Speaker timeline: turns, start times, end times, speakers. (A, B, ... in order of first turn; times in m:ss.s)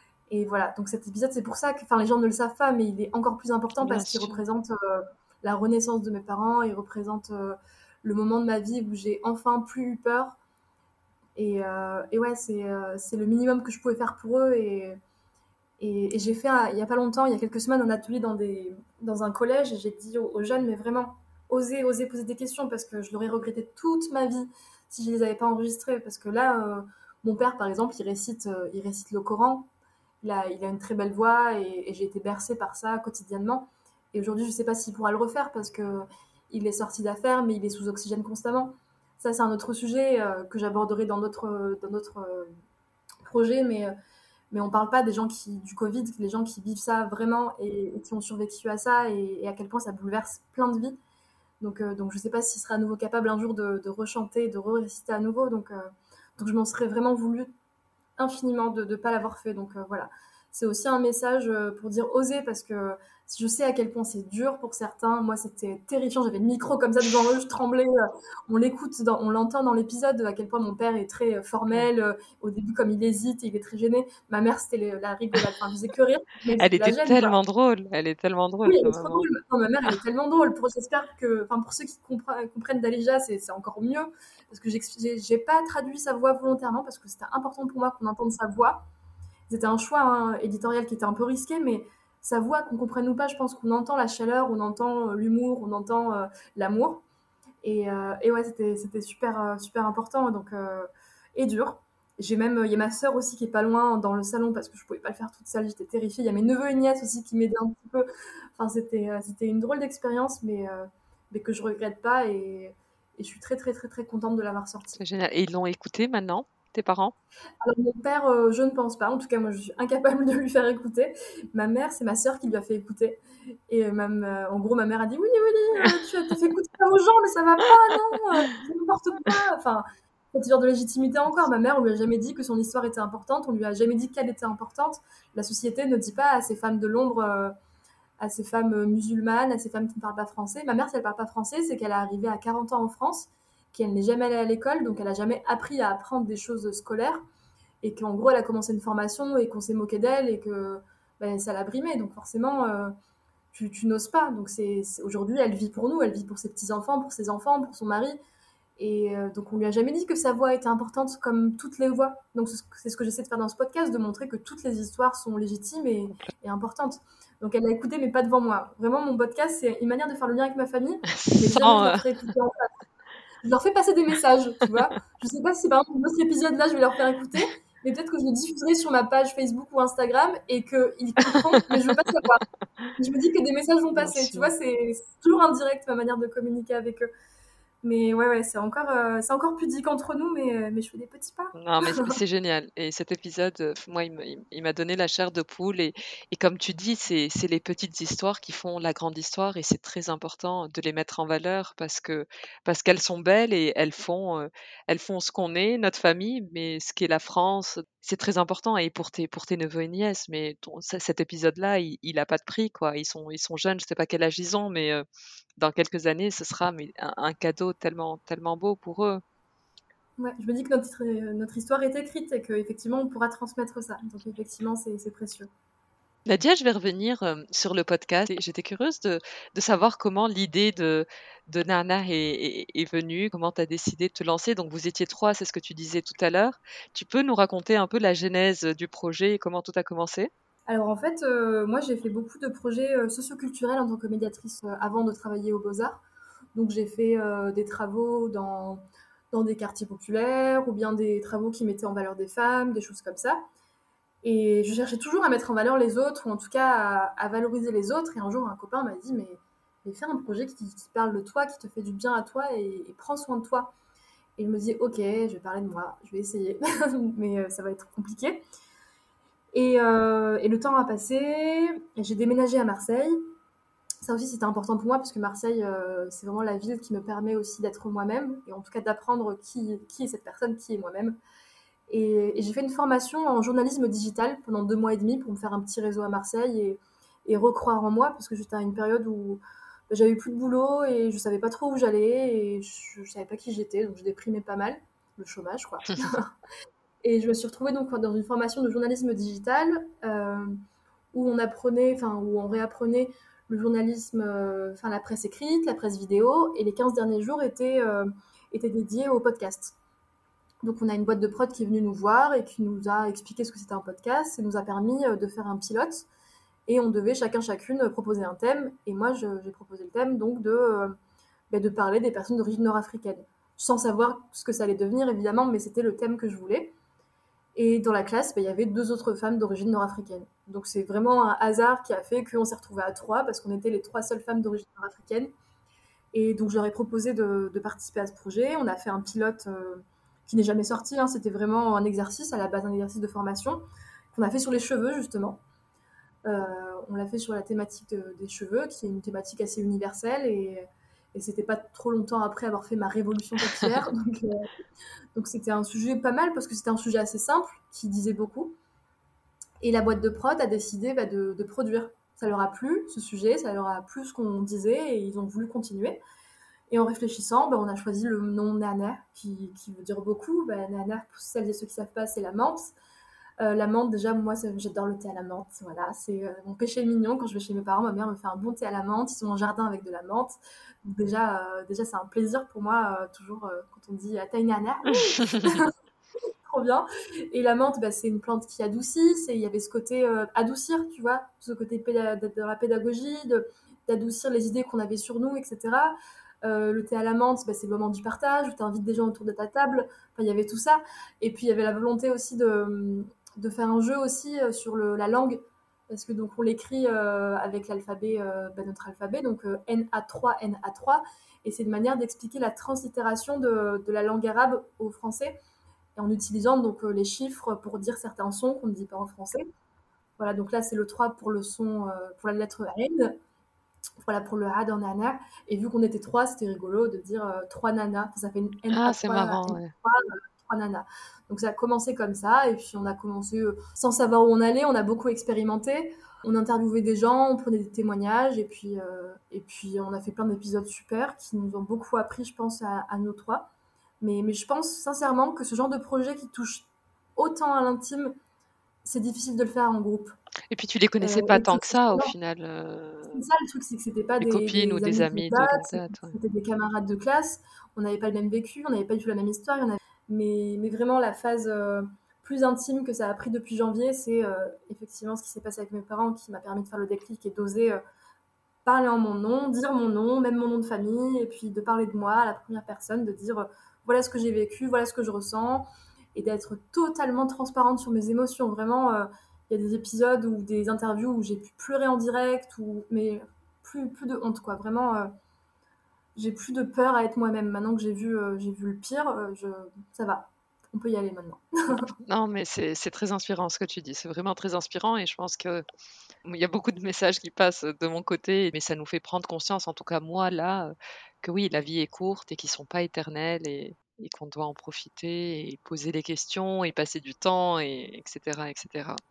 0:00.3-0:10.4 A
0:03.8-0:04.4 B
0:11.4-0:15.0 A
0:15.8-0:29.7 A
0:30.2-0:42.5 A
0:43.2-0:43.9 A
0:44.5-0:51.0 A
0:51.6-0:57.5 A
0:58.2-1:07.9 A
1:08.5-1:17.4 A
1:16.6-1:19.2 B
1:18.6-1:28.9 A
1:29.5-1:37.0 A
1:37.6-1:55.0 A
1:55.0-1:57.1 B
1:57.6-2:17.5 A
2:18.2-2:27.2 A
2:27.8-2:32.9 A
2:33.5-2:38.2 A
2:38.8-2:52.7 A
2:51.2-2:52.0 B
2:53.4-3:02.4 A
3:03.0-3:07.0 A
3:04.0-3:04.5 B
3:07.8-3:12.2 A
3:11.6-3:35.0 B
3:35.6-3:39.2 B
3:40.2-3:45.5 A
3:46.3-4:00.3 B
4:00.7-4:06.0 A
4:06.5-4:13.4 A
4:14.2-4:23.7 A
4:24.4-4:28.4 A
4:29.5-4:33.2 A
4:34.0-4:41.2 A
4:41.9-4:56.3 A
4:57.0-5:00.6 A
5:01.1-5:09.8 A
5:10.6-5:16.1 A
5:16.7-5:21.0 A
5:21.5-5:26.8 A
5:27.6-5:35.3 A
5:36.1-5:45.4 A
5:46.3-5:54.5 A
5:55.1-5:58.6 A
5:59.6-6:06.0 A
6:06.7-6:12.7 A
6:13.4-6:25.7 A
6:26.4-6:55.4 A
6:56.0-6:59.4 A
7:00.2-7:03.2 A
7:04.0-7:23.5 A
7:08.7-7:09.7 B
7:24.0-7:28.1 A
7:28.8-7:30.2 A
7:30.5-7:33.0 B
7:31.0-7:32.1 A
7:33.0-7:47.8 A
7:34.2-7:35.9 B
7:48.6-8:05.1 A
8:06.2-8:11.9 A
8:12.1-8:15.6 B
8:16.2-8:20.7 B
8:21.2-8:29.0 B